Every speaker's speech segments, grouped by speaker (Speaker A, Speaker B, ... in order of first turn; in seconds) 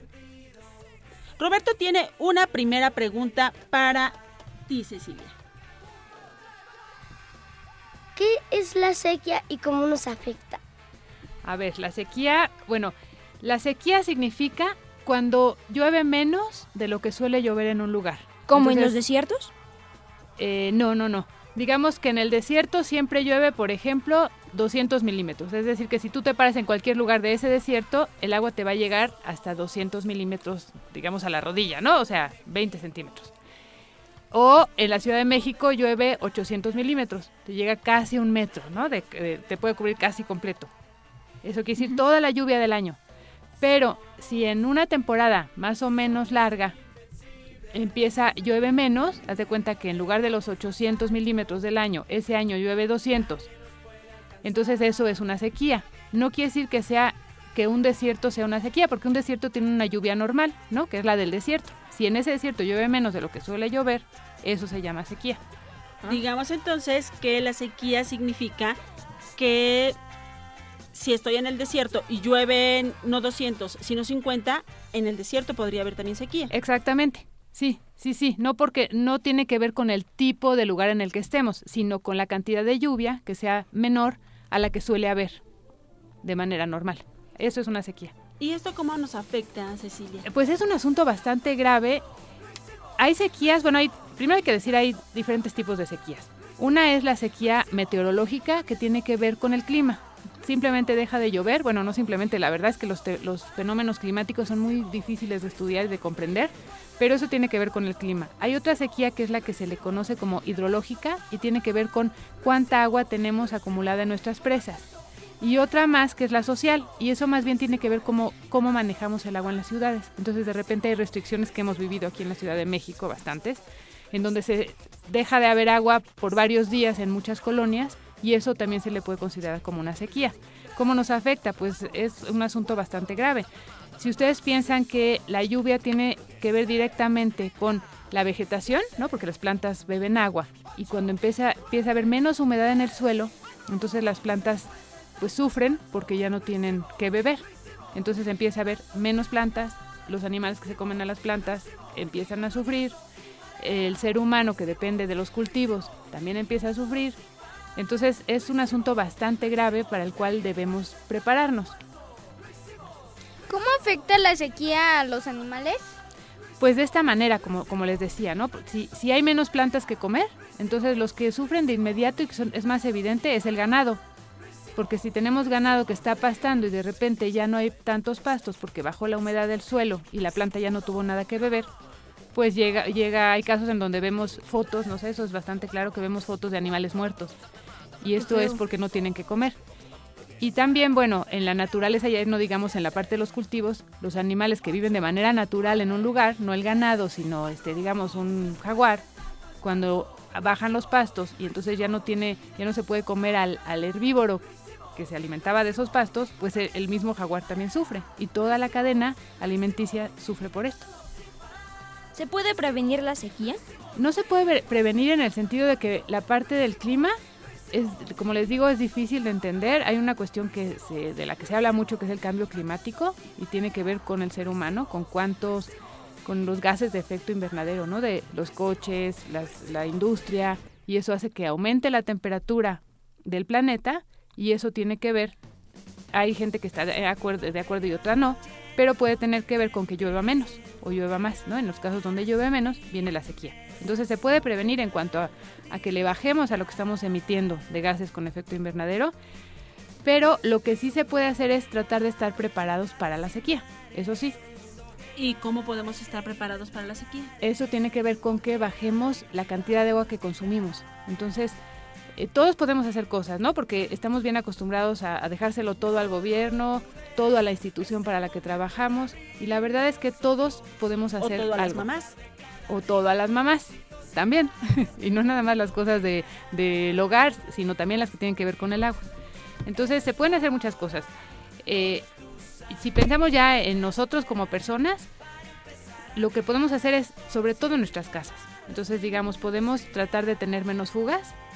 Speaker A: 1.4-4.1, 4.7-5.3, 66.0-68.8, 69.4-70.0, 70.9-76.5, 88.4-90.3, 255.2-257.3, 271.2-272.1
Speaker B: 8.2-10.6
Speaker C: 11.4-18.9, 20.4-33.3, 34.3-40.7, 41.4-43.0, 43.6-46.8, 47.7-53.5, 54.4-65.4, 76.5-85.4, 86.2-88.1, 90.3-92.0, 93.0-114.9, 115.4-133.5, 134.0-153.0, 153.6-157.2, 157.8-161.8, 166.6-174.0, 174.8-181.7, 182.3-187.3, 188.0-189.6, 190.4-199.0, 199.6-204.4, 204.9-210.9, 214.0-217.2, 217.7-225.7, 226.2-235.3, 236.1-249.1, 250.0-254.4, 257.4-261.6, 262.1-271.9, 272.7-279.1, 279.6-281.1, 281.6-282.1, 282.6-285.1, 286.1-291.4
Speaker D: 18.5-19.5, 212.1-213.6
Speaker E: 163.5-166.0